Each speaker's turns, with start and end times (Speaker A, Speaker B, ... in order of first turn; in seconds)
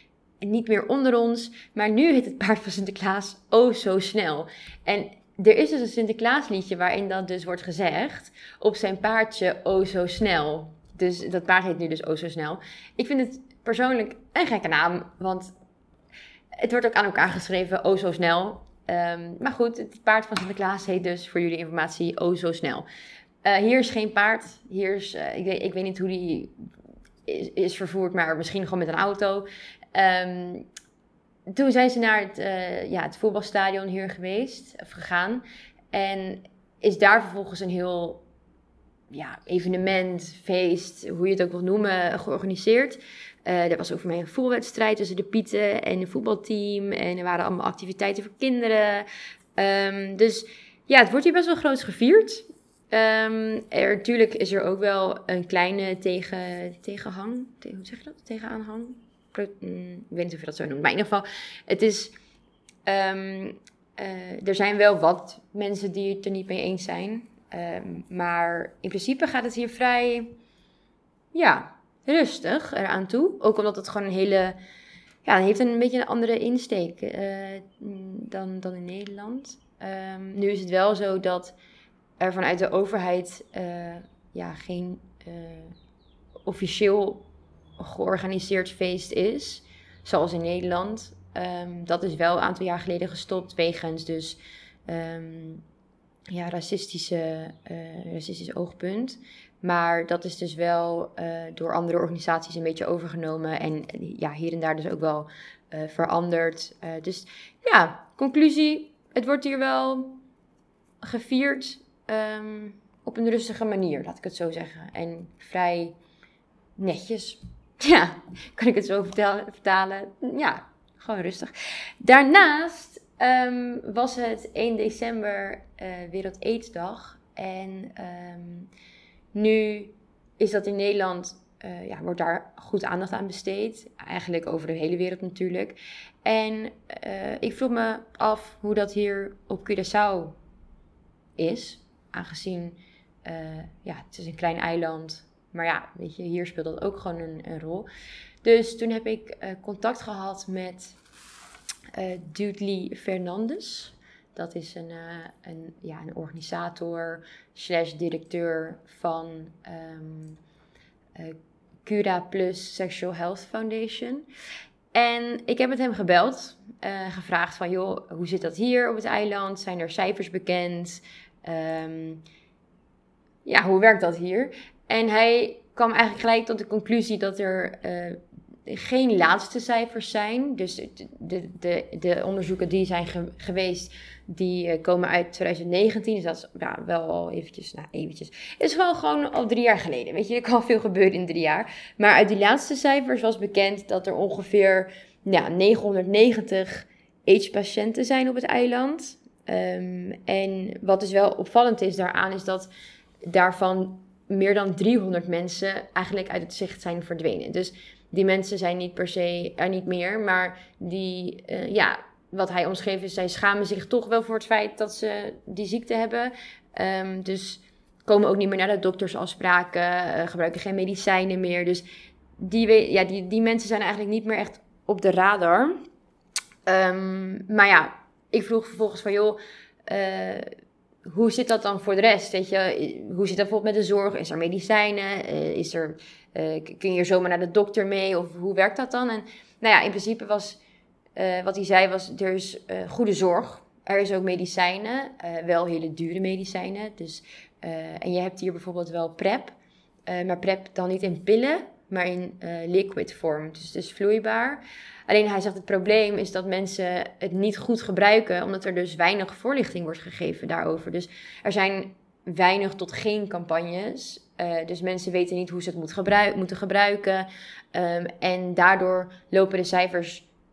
Speaker A: 0.4-15.5, 16.6-22.9, 23.4-26.5, 27.3-30.6, 31.5-38.2, 39.1-49.0, 49.6-62.1, 62.9-70.3, 71.3-74.6, 75.2-81.5, 82.2-85.7, 86.5-87.3, 87.8-95.6, 96.3-110.2, 111.0-115.9, 116.8-128.7, 129.3-140.4, 141.4-147.9, 148.4-150.9, 151.9-160.4, 161.2-164.2, 164.9-172.2, 173.4-202.7, 203.2-221.8, 222.4-225.8, 226.7-230.5, 231.1-240.6, 241.2-249.5, 250.1-270.2